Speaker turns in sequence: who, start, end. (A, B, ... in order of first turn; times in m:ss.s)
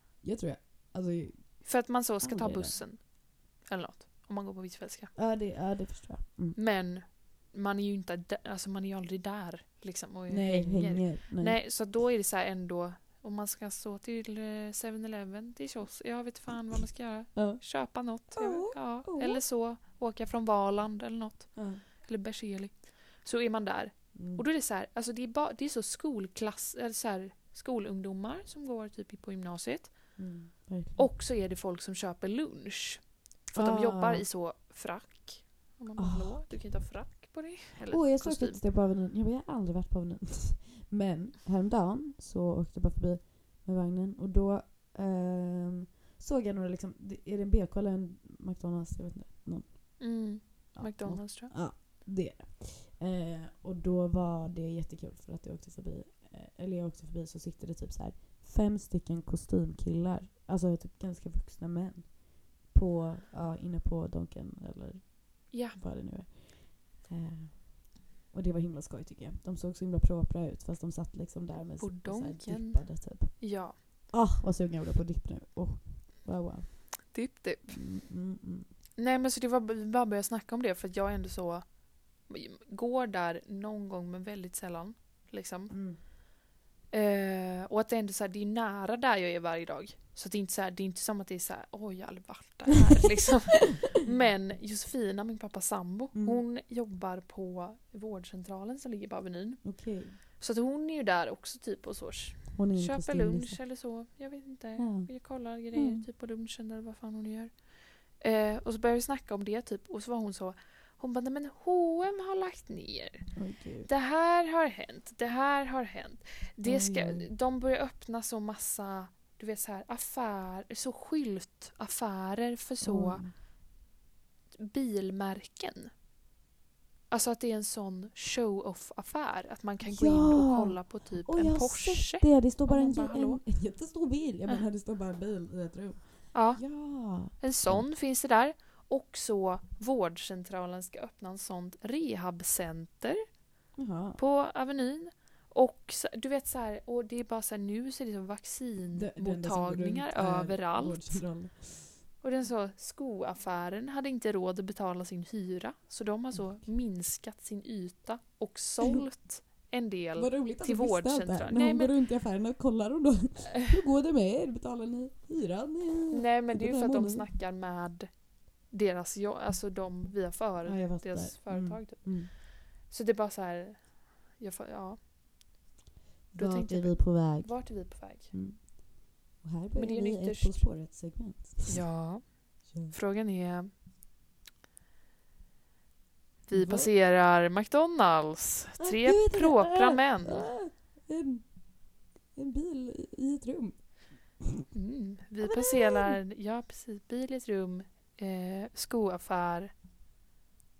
0:00.2-0:02.8 A
0:01.6-0:05.1 B
0:05.2-0:06.6 A
0:06.6-0:30.2 B
0:10.3-0:11.6 A
0:17.4-0:17.6 A
0:18.3-0:19.4 A
0:21.6-0:21.8 A
0:24.2-0:24.4 A
0:30.2-0:31.1 A
0:31.0-0:38.6 B
0:33.5-0:34.3 A
0:36.0-0:36.6 A
0:37.9-1:17.1 A
0:50.0-0:51.5 B
1:05.5-1:05.8 B
1:11.8-1:13.8 B
1:17.1-1:17.8 B
1:17.7-1:18.7 A
1:19.0-1:21.7 B
1:22.2-1:25.8 B
1:25.7-1:26.0 A
1:26.9-1:39.7 B
1:36.1-1:36.4 A
1:39.6-1:40.2 A
1:40.4-1:47.6 B
1:42.5-1:43.6 A
1:44.8-1:45.1 A
1:45.6-1:46.1 A
1:48.2-1:53.3 B
1:53.4-1:53.9 A
1:53.9-2:03.3 B
1:56.6-1:57.3 A
2:02.8-2:03.3 A
2:04.6-2:05.9 B
2:07.1-2:13.4 B
2:09.8-2:17.9 A
2:16.3-2:16.7 B
2:17.3-2:23.2 B
2:23.8-2:24.2 A
2:24.2-2:31.2 B
2:28.9-2:31.9 A
2:32.2-2:41.9 B
2:36.3-2:36.6 A
2:40.2-2:47.3 A
2:46.1-2:55.0 B
2:50.6-2:52.3 A
2:56.3-3:01.8 A
2:56.4-2:58.3 B
2:59.8-3:00.7 B
3:01.7-3:03.7 B
3:02.7-3:03.0 A
3:06.5-3:10.5 B
3:06.5-3:06.9 A
3:08.8-3:11.6 A
3:12.4-3:13.9 A
3:14.7-3:19.7 B
3:15.4-3:16.2 A